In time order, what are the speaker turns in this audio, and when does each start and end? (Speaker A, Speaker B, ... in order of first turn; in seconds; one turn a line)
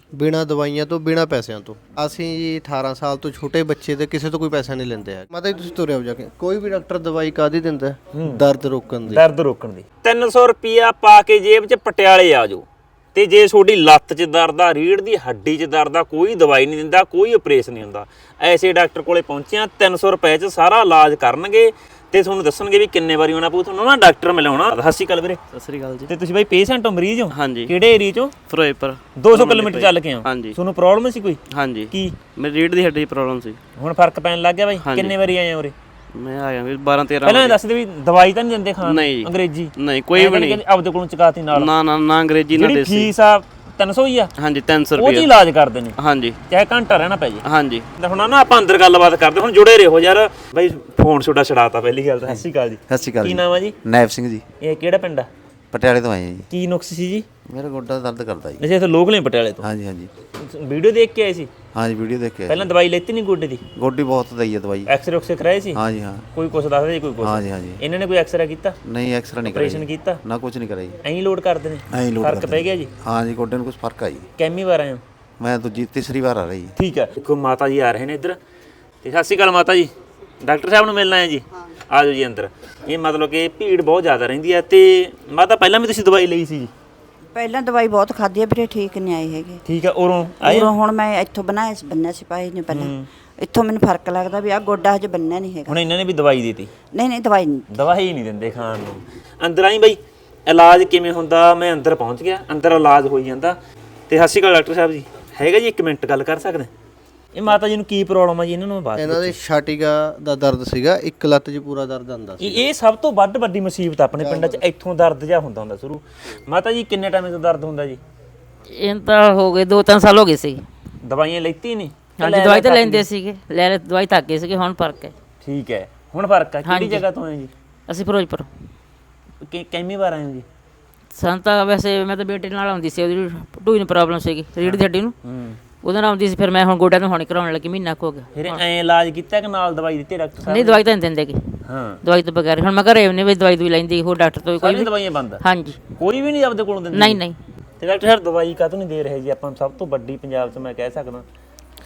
Speaker A: 0.1-9.2
Speaker B: 8.1-8.4
Speaker B: 9.1-25.4
Speaker C: 25.5-26.1
Speaker B: 26.1-28.3
Speaker C: 27.3-27.7
Speaker C: 28.4-30.6
Speaker B: 29.1-32.2
Speaker C: 31.5-33.6
Speaker B: 33.8-35.7
Speaker C: 34.8-35.2
Speaker C: 36.1-37.6
Speaker B: 37.2-41.8
Speaker C: 38.8-40.6
Speaker C: 41.5-43.1
Speaker B: 42.5-44.3
Speaker C: 44.4-45.3
Speaker B: 44.9-53.8
Speaker C: 46.0-46.4
Speaker C: 47.4-47.9
Speaker D: 52.9-54.4
Speaker B: 54.6-55.3
Speaker D: 55.7-56.5
Speaker B: 56.5-57.2
Speaker D: 57.5-58.7
Speaker B: 58.6-59.7
Speaker D: 59.6-60.1
Speaker B: 60.4-61.5
Speaker D: 61.7-62.7
Speaker B: 62.5-63.6
Speaker D: 63.8-64.9
Speaker B: 64.9-65.8
Speaker D: 65.7-66.3
Speaker B: 66.3-68.8
Speaker D: 67.2-67.8
Speaker D: 68.8-71.0
Speaker B: 69.5-70.2
Speaker B: 71.0-72.9
Speaker D: 71.9-74.3
Speaker B: 74.4-75.0
Speaker D: 75.4-76.7
Speaker B: 76.8-78.4
Speaker B: 79.0-86.7
Speaker E: 87.3-89.6
Speaker B: 89.7-90.7
Speaker E: 90.4-95.7
Speaker B: 92.7-93.1
Speaker B: 95.7-96.7
Speaker E: 96.9-97.6
Speaker B: 97.7-103.6
Speaker B: 104.1-106.7
Speaker B: 107.3-109.4
Speaker A: 109.0-112.7
Speaker B: 112.4-118.0
Speaker A: 114.2-114.6
Speaker F: 118.7-120.7
Speaker B: 121.0-123.1
Speaker F: 122.2-125.1
Speaker B: 125.4-127.5
Speaker F: 126.6-127.0
Speaker F: 127.9-128.5
Speaker B: 129.4-130.4
Speaker F: 131.2-135.1
Speaker B: 134.6-135.6
Speaker F: 135.8-138.6
Speaker B: 138.3-140.8
Speaker F: 140.4-145.8
Speaker B: 141.7-142.0
Speaker B: 144.6-147.2
Speaker F: 146.9-147.4
Speaker B: 147.8-151.2